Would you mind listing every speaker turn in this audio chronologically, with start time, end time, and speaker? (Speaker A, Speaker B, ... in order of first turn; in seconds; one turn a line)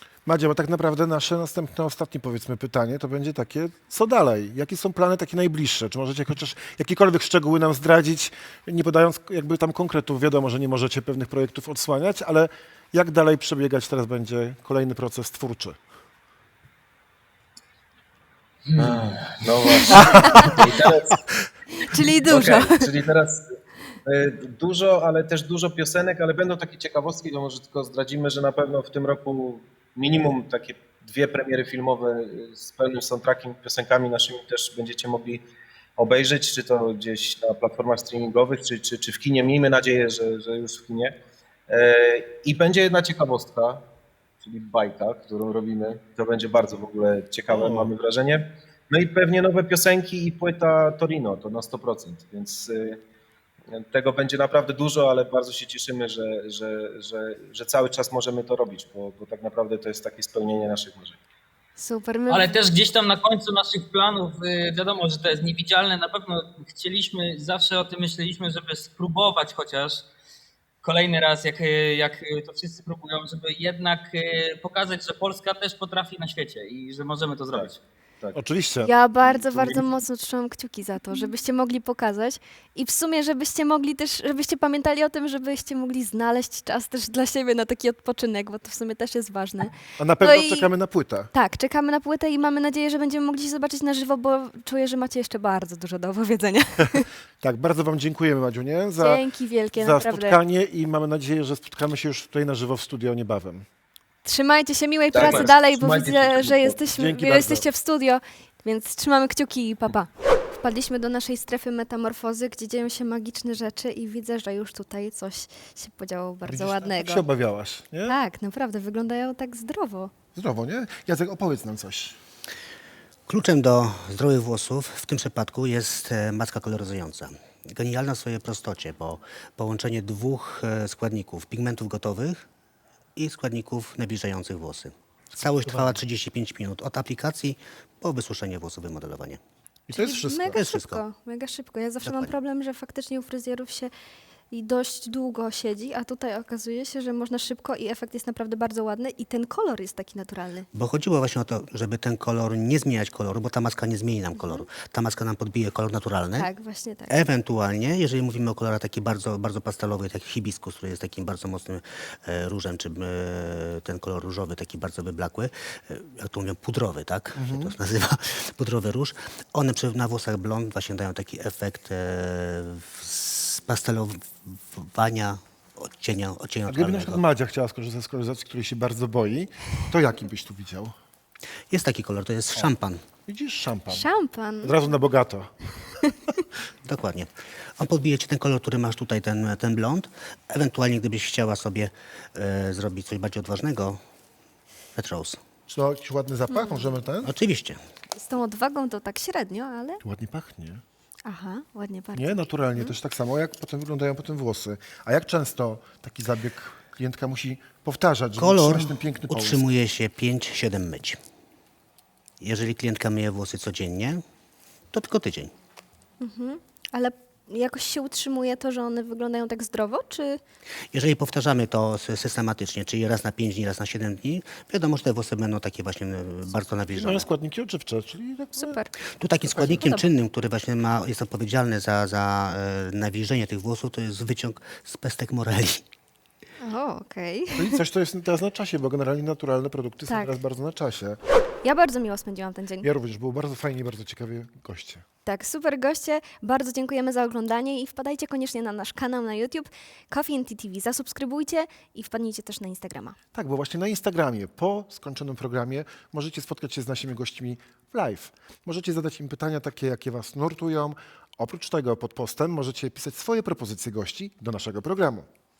Speaker A: 0.3-15.8
Speaker B: 18.8-19.9
Speaker A: 20.0-20.5
Speaker C: 20.2-20.5
Speaker B: 20.6-21.2
Speaker C: 21.8-22.9
Speaker B: 22.2-23.6
Speaker B: 24.1-35.4
Speaker B: 36.0-41.1
Speaker B: 41.7-43.8
Speaker B: 44.4-53.0
Speaker A: 47.5-47.9
Speaker B: 53.7-61.2
Speaker C: 61.8-62.6
Speaker D: 62.3-70.0
Speaker D: 70.8-77.7
Speaker A: 78.3-78.9
Speaker C: 78.8-90.8
Speaker B: 79.2-79.8
Speaker A: 90.0-91.3
Speaker C: 91.3-97.1
Speaker A: 97.4-103.7
Speaker C: 99.0-100.4
Speaker C: 104.2-117.3
Speaker B: 105.1-106.9
Speaker A: 106.9-107.7
Speaker A: 116.5-118.2
Speaker C: 118.1-120.1
Speaker A: 120.3-122.2
Speaker E: 123.3-132.4
Speaker E: 133.2-139.4
Speaker A: 135.4-136.0
Speaker A: 139.9-140.6
Speaker C: 139.9-143.9
Speaker E: 140.4-141.1
Speaker E: 142.0-142.3
Speaker C: 144.5-150.7
Speaker E: 150.7-156.5
Speaker C: 154.3-154.7
Speaker C: 156.4-157.2
Speaker E: 157.1-177.2
Speaker A: 167.4-167.8
Speaker A: 176.7-180.9
Speaker E: 181.7-183.0
Speaker A: 183.3-184.1
Speaker C: 183.9-184.8
Speaker A: 184.6-185.5
Speaker E: 186.8-194.0
Speaker E: 195.0-195.4
Speaker A: 195.7-197.3
Speaker C: 196.5-197.0
Speaker E: 197.2-197.8
Speaker C: 198.2-200.0
Speaker A: 200.0-200.8
Speaker C: 201.2-202.9
Speaker A: 202.2-209.7
Speaker E: 208.4-211.2
Speaker E: 212.4-214.2
Speaker E: 214.9-215.5
Speaker C: 216.2-220.4
Speaker E: 220.9-227.3
Speaker A: 226.9-228.8
Speaker C: 228.6-228.9
Speaker E: 229.2-235.8
Speaker A: 229.4-229.9
Speaker C: 229.8-230.1
Speaker C: 236.6-237.8
Speaker A: 237.6-241.2
Speaker C: 240.1-240.3
Speaker C: 241.6-242.9
Speaker A: 242.8-245.0
Speaker C: 245.3-253.2
Speaker A: 253.3-265.3